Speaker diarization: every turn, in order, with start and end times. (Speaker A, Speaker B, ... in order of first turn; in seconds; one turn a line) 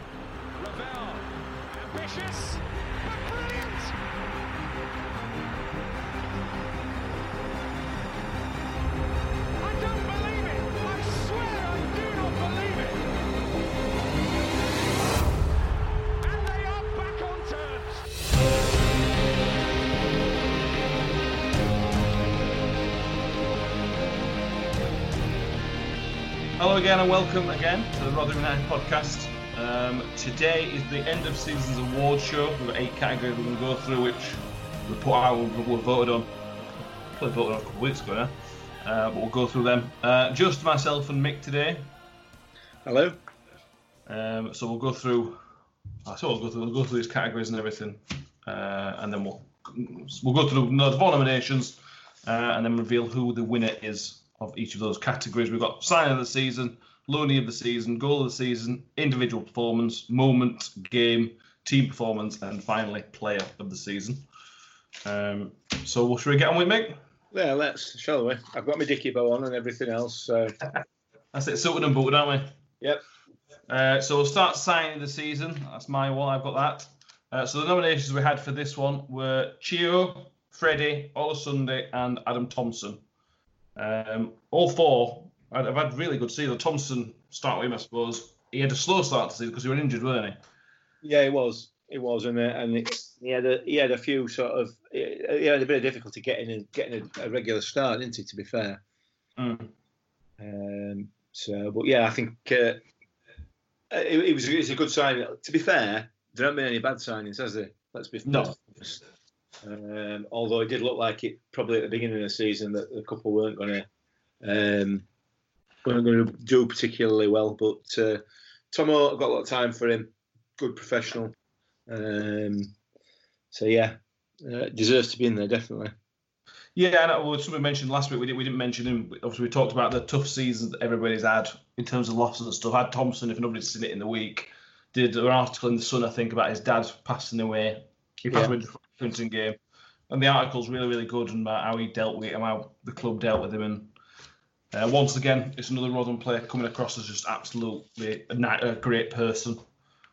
Speaker A: 0.6-4.0
Speaker A: 9.6-13.1
Speaker A: 16.2-18.1
Speaker B: 26.6-36.4
Speaker B: 37.1-41.9
Speaker C: 42.9-43.2
Speaker B: 44.1-45.4
Speaker B: 46.0-64.3
Speaker B: 65.0-67.0
Speaker C: 67.3-70.5
Speaker B: 71.3-72.5
Speaker B: 73.7-83.0
Speaker B: 83.8-90.4
Speaker C: 91.0-98.8
Speaker B: 99.4-99.7
Speaker C: 100.4-102.8
Speaker C: 103.9-109.0
Speaker B: 108.2-108.6
Speaker C: 109.6-113.9
Speaker C: 114.4-115.0
Speaker C: 115.8-121.3
Speaker C: 121.9-122.7
Speaker C: 123.5-125.9
Speaker B: 126.8-139.6
Speaker B: 140.1-143.9
Speaker B: 144.7-149.6